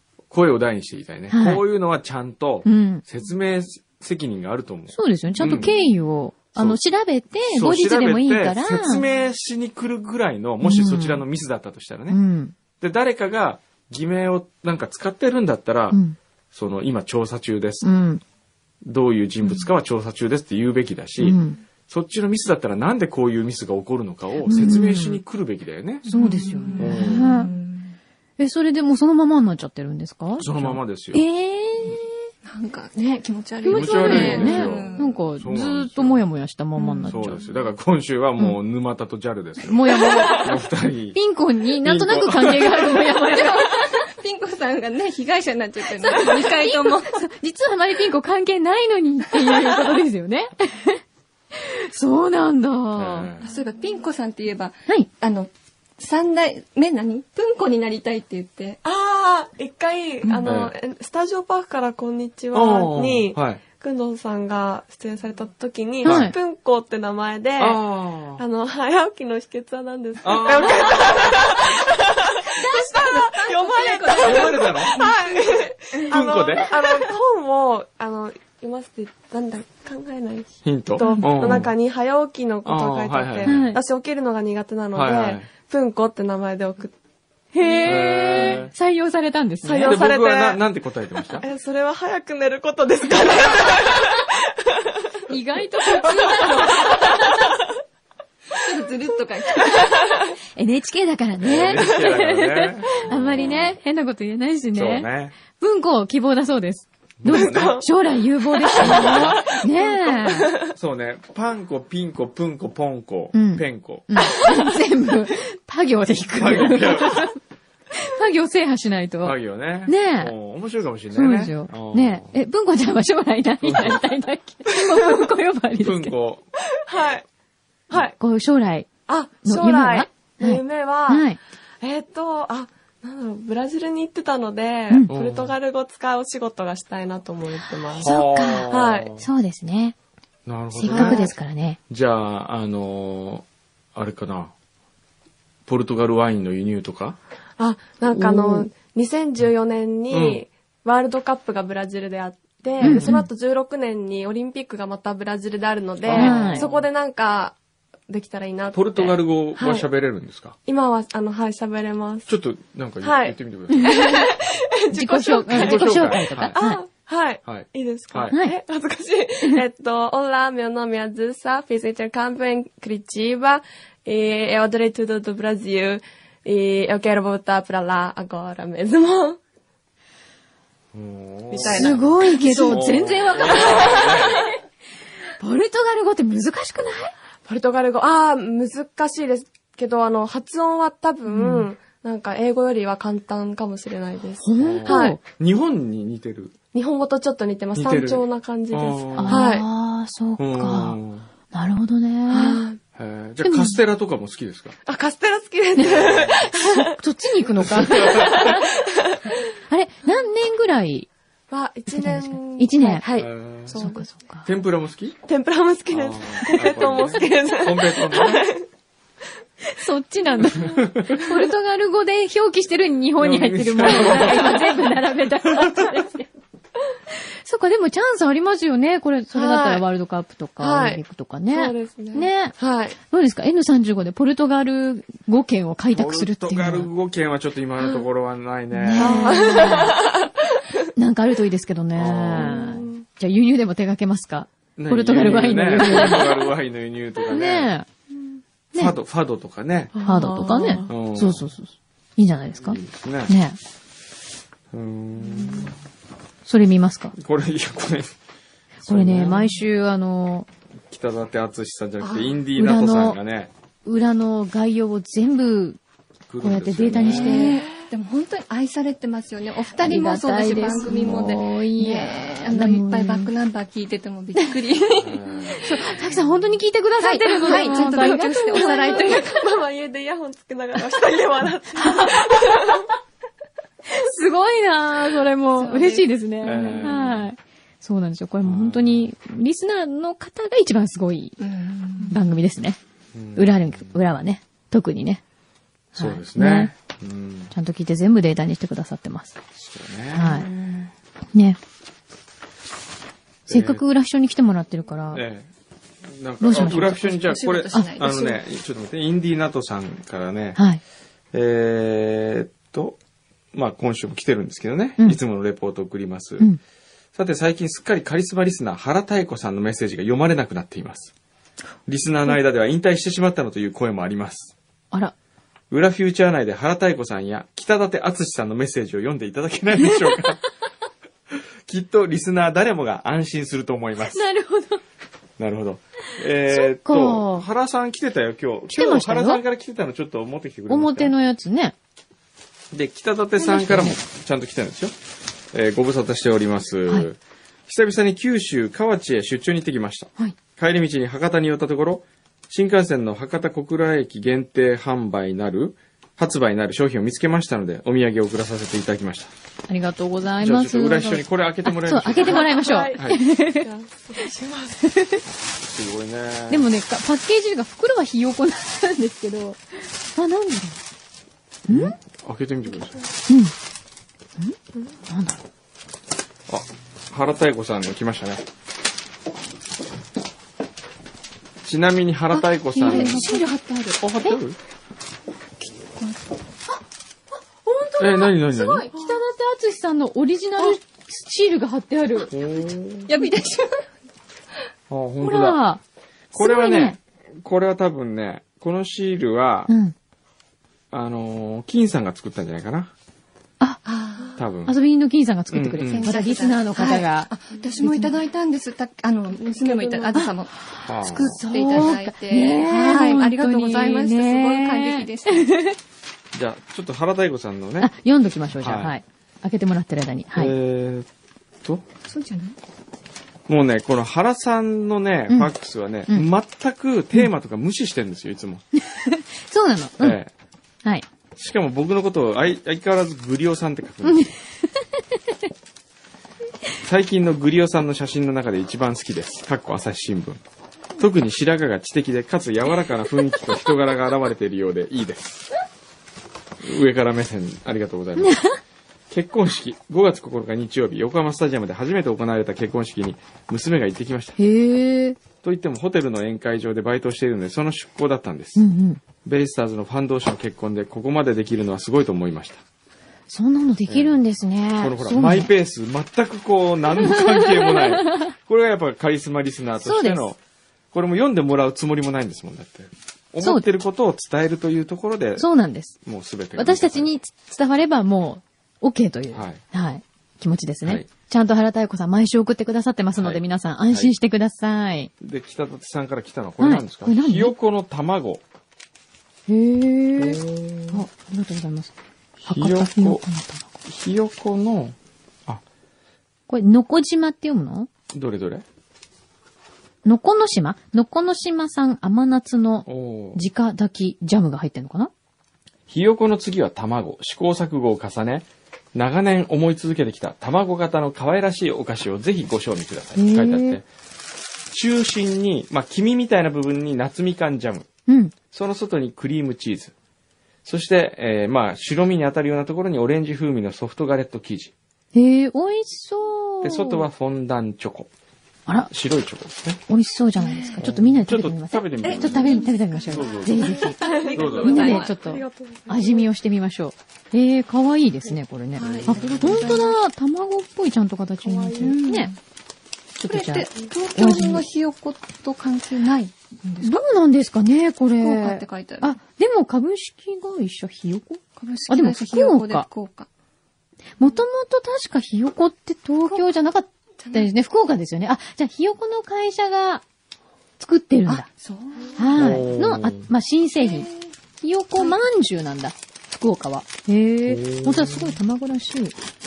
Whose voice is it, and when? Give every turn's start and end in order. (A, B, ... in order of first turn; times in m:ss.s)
0:00.3-0:05.7 A
0:01.3-0:01.6 B
0:02.6-0:03.0 B
0:04.9-0:09.0 B
0:06.6-0:06.8 A
0:07.5-0:12.2 A
0:10.6-0:11.2 B
0:12.1-0:12.6 B
0:12.8-0:16.0 A
0:15.9-0:16.2 B
0:16.5-0:17.9 A
0:17.8-0:18.2 B
0:18.8-0:26.1 A
0:21.2-0:21.6 B
0:24.5-0:25.2 B
0:26.1-0:27.5 B
0:26.1-0:28.0 C
0:26.8-0:27.3 A
0:28.4-0:32.1 B
0:30.4-0:31.2 A
0:32.4-0:35.2 C
0:33.6-0:37.4 B
0:33.7-0:36.2 A
0:36.8-0:37.6 C
0:37.1-0:41.2 A
0:39.6-0:40.5 B
0:41.1-0:44.0 B
0:41.8-0:42.8 A
0:42.8-0:47.2 C
0:46.0-0:51.0 B
0:51.5-0:53.3 B
0:53.0-0:53.5 A
0:53.4-0:58.8 C
0:58.8-1:07.8 D
1:00.4-1:00.7 A
1:02.5-1:03.6 A
1:06.0-1:06.3 A
1:06.0-1:06.3 B
1:07.6-1:08.4 A
1:08.4-1:27.0 D
1:10.2-1:11.4 A
1:12.5-1:15.6 C
1:14.2-1:15.0 A
1:16.1-1:16.7 A
1:20.6-1:21.7 A
1:22.6-1:23.6 A
1:23.4-1:23.8 B
1:24.9-1:25.5 A
1:27.5-1:30.0 B
1:27.7-1:28.6 D
1:27.8-1:28.7 A
1:29.6-1:30.6 D
1:29.8-1:31.5 A
1:31.3-1:35.1 D
1:35.3-1:37.3 B
1:36.0-1:37.5 D
1:38.5-1:40.1 C
1:40.6-1:50.5 B
1:41.4-1:43.8 A
1:44.7-1:45.4 A
1:47.2-1:47.8 A
1:47.3-1:47.9 D
1:48.6-1:50.7 D
1:48.7-1:49.5 A
1:50.8-1:54.4 A
1:53.3-1:57.4 B
1:56.4-1:57.3 A
1:57.9-2:00.3 B
1:59.2-2:02.4 A
2:01.1-2:06.1 B
2:03.6-2:04.0 A
2:05.8-2:06.4 A
2:06.8-2:07.3 D
2:07.9-2:08.9 B
2:09.1-2:11.3 D
2:09.4-2:11.4 B
2:11.8-2:18.2 D
2:15.1-2:15.6 A
2:17.9-2:19.2 A
2:18.0-2:20.0 B
2:18.7-2:19.1 D
2:20.5-2:21.3 A
2:20.7-2:21.8 B
2:20.9-2:21.3 D
2:21.9-2:24.5 A
2:25.7-2:27.2 A
2:27.6-2:39.9 D
2:28.1-2:28.7 B
2:30.1-2:30.4 A
2:32.8-2:33.2 A
2:32.8-2:33.3 B
2:36.1-2:36.9 A
2:36.1-2:36.7 B
2:38.7-2:40.6 A
2:40.7-2:42.3 D
2:42.3-2:44.1 A
2:43.0-2:59.4 D
2:43.8-2:44.2 B
2:44.9-2:46.8 B
2:45.5-2:46.6 A
2:47.4-2:48.4 A
2:48.3-2:48.6 B
3:00.9-3:02.1 A
3:01.5-3:04.1 D
3:01.6-3:04.5 B
3:02.6-3:04.5 A
3:05.4-3:07.1 B
3:07.5-3:15.2 D
3:11.3-3:11.7 B
3:14.4-3:15.2 B
3:14.6-3:16.6 A
3:16.7-3:19.7 D
3:17.8-3:19.5 A
3:19.2-3:21.0 B
3:20.4-3:21.3 A
3:21.5-3:22.6 B
3:22.3-3:22.8 D
3:23.0-3:24.8 A
3:23.4-3:23.8 B
3:24.9-3:26.9 D
3:25.8-3:28.6 B
3:25.8-3:26.4 A
3:27.6-3:29.4 D
3:27.6-3:28.6 A
3:29.7-3:31.1 B
3:31.5-3:34.1 D
3:31.9-3:33.0 B
3:33.2-3:33.8 A
3:33.7-3:34.5 B
3:34.5-3:35.2 A
3:35.3-3:38.6 D
3:35.9-3:38.5 A
3:39.7-3:46.3 B
3:40.6-3:41.2 A
3:43.2-3:44.9 A
3:45.5-3:45.9 A
3:47.4-3:56.9 B
3:49.3-3:49.8 D
3:50.6-3:51.0 D
3:51.5-3:53.0 D
3:55.9-3:59.8 A
3:58.7-4:00.0 B
3:59.0-4:00.5 D
4:01.0-4:06.5 B
4:02.0-4:02.8 A
4:02.4-4:03.0 D
4:04.8-4:07.7 A
4:07.3-4:07.9 B
4:08.8-4:09.9 A
4:09.9-4:10.9 D
4:10.0-4:13.6 B
4:10.9-4:11.5 A
4:12.6-4:13.3 A
4:14.7-4:15.8 A
4:16.5-4:17.2 B
4:17.2-4:18.2 A
4:18.8-4:20.5 B
4:18.9-4:19.5 A
4:20.9-4:23.5 A
4:22.6-4:23.2 B
4:23.8-4:25.8 B
4:26.3-4:27.5 A
4:26.4-4:27.6 B
4:27.0-4:35.7 C
4:27.4-4:27.7 D
4:29.8-4:33.3 B
4:35.0-4:35.6 A
4:35.6-4:39.3 B
4:37.0-4:39.4 C
4:37.4-4:42.9 D
4:41.8-4:42.2 B
4:43.9-4:51.4 B
4:45.6-4:46.9 C
4:46.4-4:47.3 A
4:48.4-4:49.1 A
4:51.4-4:52.2 C
4:52.1-4:52.8 B
4:53.1-4:54.0 A
4:53.4-4:55.2 B
4:56.0-4:56.7 B
4:56.0-4:57.5 A
4:57.5-4:59.4 B
4:59.6-5:00.9 A
5:00.1-5:00.5 B
5:01.3-5:01.6 B
5:03.5-5:03.8 A
5:03.5-5:05.2 B
5:05.1-5:05.5 A
5:06.0-5:10.6 A
5:06.4-5:07.2 B
5:07.1-5:08.4 C
5:10.6-5:10.8 B
5:11.3-5:13.0 A
5:13.5-5:16.5 A
5:17.2-5:21.1 A
5:21.9-5:24.5 A
5:25.7-5:30.4 A
5:29.8-5:30.3 B
5:31.3-5:34.3 A
5:34.1-5:34.8 B
5:35.4-5:41.1 A
5:36.5-5:37.5 B
5:38.7-5:39.4 B
5:40.7-5:41.8 B
5:42.7-5:45.0 A
5:43.4-5:44.0 B
5:45.5-5:59.3 A
5:59.7-6:03.7 B
6:00.4-6:03.2 A
6:02.2-6:04.9 D
6:04.9-6:05.2 B
6:05.3-6:06.7 A
6:06.5-6:10.8 B
6:11.7-6:12.0 B
6:11.7-6:13.0 A
6:13.3-6:13.5 B
6:14.4-6:15.4 B
6:16.5-6:18.4 A
6:21.6-6:23.3 A
6:22.3-6:24.0 C
6:22.8-6:23.6 B
6:24.0-6:24.6 A
6:25.6-6:26.2 C
6:27.6-6:32.3 B
6:28.0-6:28.9 A
6:32.3-6:33.1 A
6:33.1-6:33.9 C
6:34.9-6:35.6 A
6:35.2-6:35.8 B
6:36.3-6:37.0 B
6:36.3-6:39.7 A
6:39.7-6:40.0 B
6:40.9-6:42.9 A
6:43.8-6:44.4 C
6:44.4-6:44.8 A
6:44.7-6:48.2 B
6:45.5-6:46.2 A
6:45.8-6:55.6 C
6:49.5-6:50.2 D
6:50.1-6:55.8 B
6:50.8-6:51.4 A
6:56.3-6:57.9 A
6:57.8-7:00.6 B
6:58.6-6:59.0 A
7:00.4-7:01.1 A
7:02.1-7:02.6 C
7:03.5-7:08.6 A
7:08.8-7:10.2 B
7:10.0-7:10.3 A
7:11.4-7:14.3 A
7:14.0-7:15.0 B
7:16.8-7:20.4 A
7:21.0-7:25.5 A
7:26.6-7:28.4 A
7:28.2-7:28.6 B
7:29.1-7:34.4 A
7:34.4-7:35.2 B
7:35.4-7:38.6 A
7:38.6-7:39.0 B
7:39.2-7:42.6 A
7:43.3-7:45.5 B
7:43.9-7:44.2 A
7:44.8-7:50.4 A
7:47.0-7:48.3 B
7:49.8-7:50.3 B
7:50.9-7:55.5 A
7:53.4-7:53.7 B
7:55.4-7:56.0 B
7:56.0-7:57.1 A
7:56.6-8:05.1 B
7:59.3-7:59.6 A
8:03.2-8:04.1 A
8:05.2-8:08.4 A
8:06.6-8:07.6 B
8:09.5-8:11.9 B
8:10.2-8:11.0 A
8:12.4-8:13.2 A
8:12.5-8:13.8 B
8:13.8-8:15.6 A
8:16.5-8:17.9 B
8:18.1-8:18.6 A
8:20.0-8:25.1 B
8:22.9-8:23.4 A
8:25.9-8:33.8 A
8:33.2-8:33.8 B
8:34.7-8:37.9 A
8:38.1-8:38.3 B
8:38.5-8:39.9 A
8:40.6-8:44.7 A
8:45.1-8:47.1 B
8:46.6-8:48.1 A
8:48.9-8:49.8 A
8:49.9-9:02.4 B
8:50.4-8:50.8 C
8:50.8-8:53.8 A
8:52.0-8:55.2 C
8:53.8-8:56.3 D
8:54.3-8:55.0 A
8:58.8-9:00.0 C
8:59.1-8:59.5 A
9:01.4-9:02.0 D
9:01.8-9:02.4 C
9:03.2-9:04.6 B
9:03.3-9:07.0 C
9:06.8-9:12.9 B
9:08.2-9:09.2 C
9:11.6-9:13.3 C
9:14.2-9:20.0 B
9:17.2-9:17.5 C
9:20.8-9:21.5 B
9:21.3-9:22.4 C
9:22.2-9:24.1 B
9:22.4-9:23.3 A
9:23.8-9:24.3 C
9:24.6-9:29.1 B
9:25.0-9:25.2 C
9:27.5-9:28.4 A